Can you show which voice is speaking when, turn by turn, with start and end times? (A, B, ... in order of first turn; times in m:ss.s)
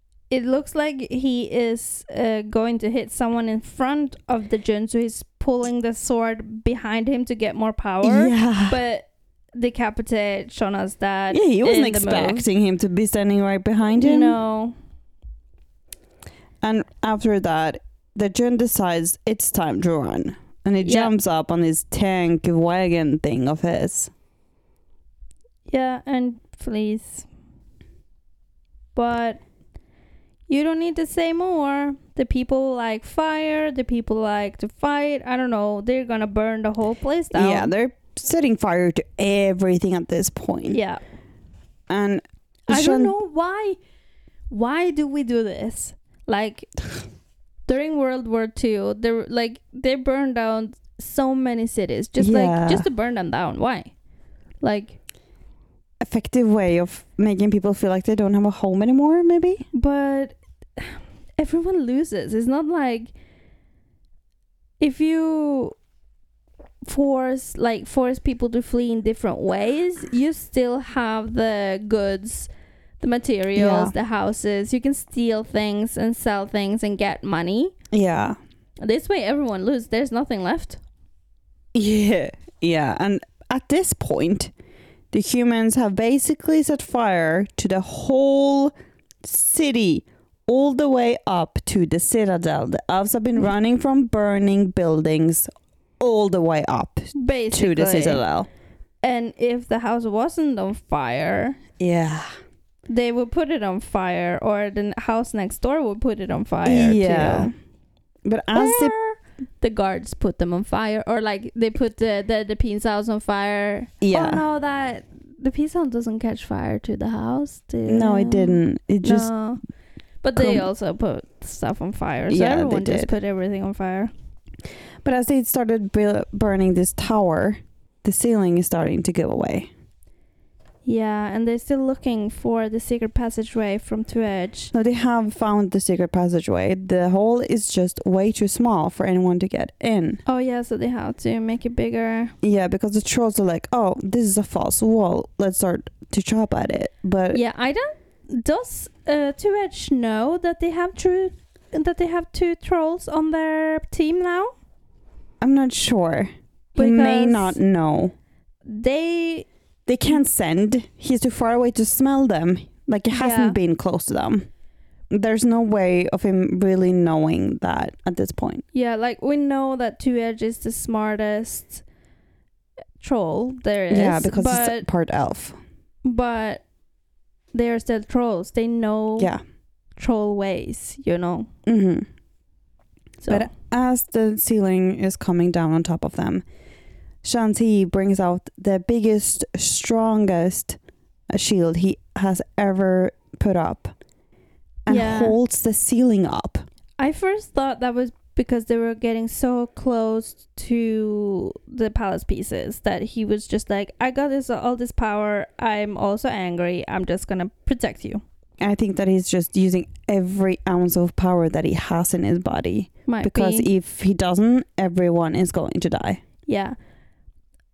0:00.3-0:12.5 A
0:08.0-0:08.8 B
0:11.3-0:14.4 B
0:13.9-0:14.8 A
0:16.6-0:24.1 B
0:20.8-0:21.1 A
0:25.7-0:27.3 A
0:28.9-0:29.4 A
0:30.5-0:37.7 A
0:37.3-0:40.8 B
0:40.7-0:41.0 A
0:41.9-0:43.1 B
0:42.7-0:43.8 A
0:44.5-0:46.7 A
0:47.7-0:53.9 A
0:52.2-0:52.9 B
0:54.6-0:55.0 A
0:56.0-0:59.6 B
0:59.7-1:03.1 A
1:04.8-1:05.8 A
1:06.9-1:12.5 A
1:13.0-1:17.7 A
1:13.6-1:13.9 B
1:17.9-1:18.4 B
1:18.8-1:20.8 A
1:21.7-1:24.5 B
1:25.1-1:35.5 B
1:36.0-1:38.5 B
1:37.1-1:38.2 A
1:39.0-1:41.6 A
1:41.8-1:42.3 B
1:42.9-1:47.5 A
1:46.6-1:47.5 B
1:48.2-1:48.9 B
1:48.5-1:59.6 A
1:54.0-1:54.4 B
1:57.9-1:59.3 B
2:00.2-2:04.1 A
2:00.4-2:00.7 B
2:02.3-2:03.1 B
2:05.0-2:09.7 B
2:10.8-2:14.7 A
2:14.7-2:20.2 B
2:20.3-2:22.3 A
2:22.4-2:27.4 B
2:27.3-2:34.5 A
2:35.4-2:38.1 B
2:36.8-2:37.6 A
2:38.6-2:39.5 A
2:39.9-2:44.5 B
2:43.1-2:43.6 A
2:45.1-2:48.6 B
2:48.7-2:51.8 A
2:53.0-2:54.9 A
2:53.9-2:55.6 B
2:56.0-2:56.6 A
2:57.5-2:59.3 A
3:00.0-3:01.5 A
3:01.6-3:02.1 B
3:03.2-3:03.5 A
3:03.3-3:06.4 B
3:07.2-3:10.8 B
3:11.3-3:13.9 B
3:14.9-3:16.6 B
3:14.9-3:15.4 A
3:17.0-3:28.2 A
3:28.6-3:36.2 B
3:33.1-3:33.7 A
3:36.5-3:36.8 A